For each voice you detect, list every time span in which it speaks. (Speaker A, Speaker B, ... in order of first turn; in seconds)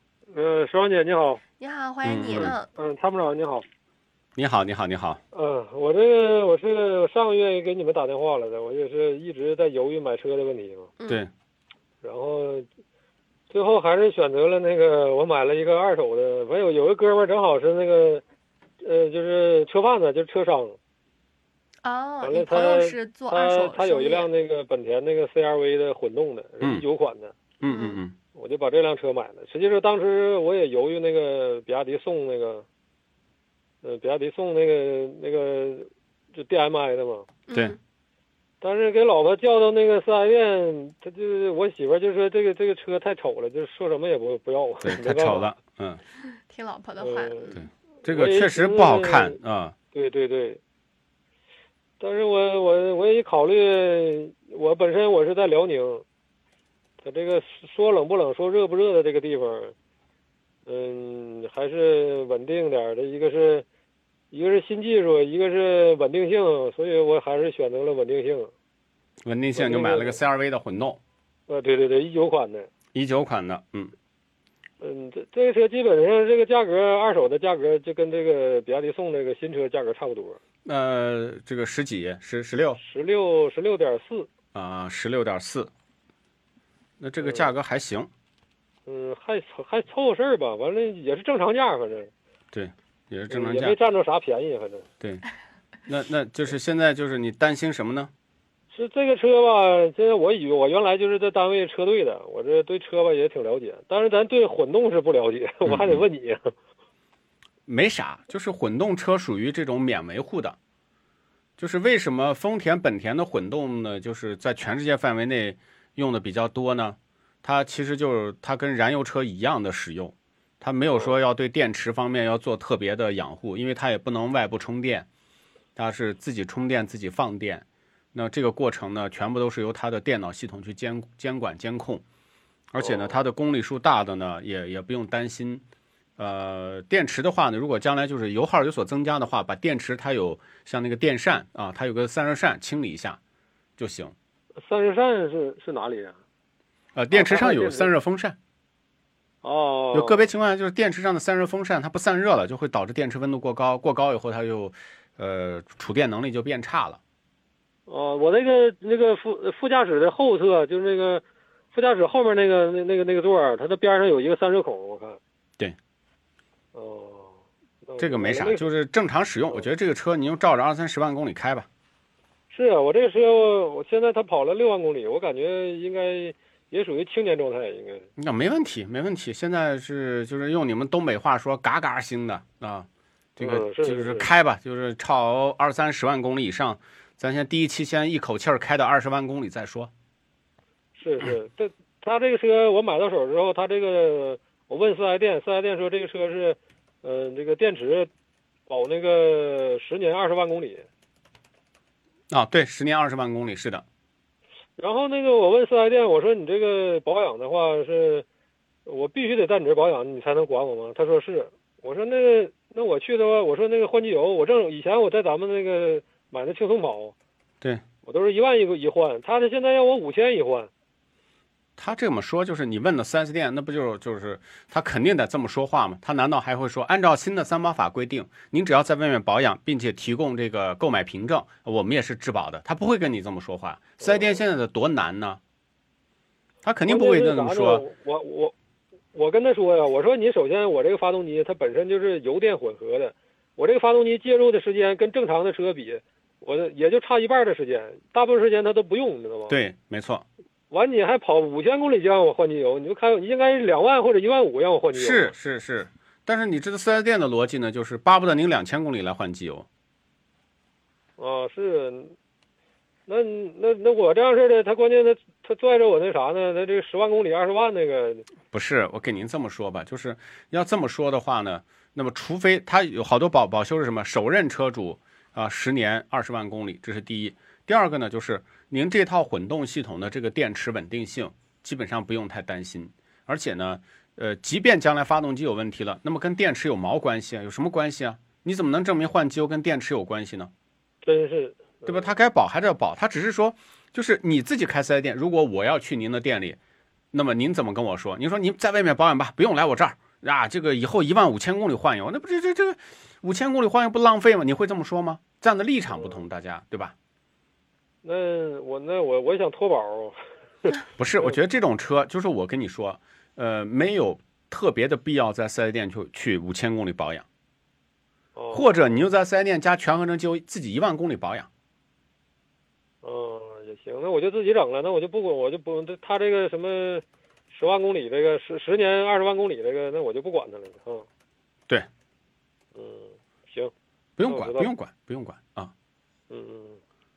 Speaker A: 0.3-1.4, 2.7-3.6, 5.3-10.9, 12.0-12.7, 13.5-18.2, 18.8-20.8, 22.2-27.5, 28.3-32.6, 33.8-37.3, 38.6-45.5, 47.0-47.5, 48.0-49.4, 49.9-50.6, 52.0-56.0, 57.0-59.7, 60.6-63.6, 64.3-68.5, 69.5-70.2, 71.5-72.7, 74.8-80.4, 82.8-84.3, 87.2-87.5, 88.8-92.1, 93.3-94.9, 98.7-106.5, 132.8-133.2, 144.6-146.2, 147.1-147.9, 149.4-150.3, 157.9-165.2, 166.7-168.7, 172.5-178.1, 183.4-184.3, 190.9-198.1, 198.7-200.8, 204.8-208.2, 208.8-217.1, 218.0-220.7, 234.0-234.4, 236.8-238.5, 239.1-249.6, 250.7-255.3, 261.2-262.1, 263.1-268.2, 291.0-292.1, 305.9-306.2, 308.0-311.4, 318.4-318.9, 323.0-331.1, 332.7-333.7, 334.2-334.7, 336.3-336.8
Speaker B: 1.6-2.7, 11.0-11.2, 21.8-24.3, 27.6-28.0, 37.5-37.8, 46.2-47.6
Speaker C: 2.0-2.5, 4.3-5.2, 27.6-28.2, 44.8-46.0, 47.5-49.8, 69.2-71.0, 72.9-73.9, 80.6-82.8, 84.5-85.7, 87.0-88.1, 92.5-93.8, 95.8-98.1, 105.7-106.0, 107.7-110.6, 111.6-125.1, 125.8-132.0, 132.7-135.6, 136.2-143.2, 143.8-144.1, 146.9-148.4, 149.9-157.0, 168.0-171.7, 178.2-189.9, 202.3-203.8, 221.8-235.4, 236.6-237.8, 249.5-250.2, 254.9-259.7, 268.5-290.5, 291.8-296.6, 297.1-306.9, 311.0-317.2, 318.5-321.5, 334.2-335.7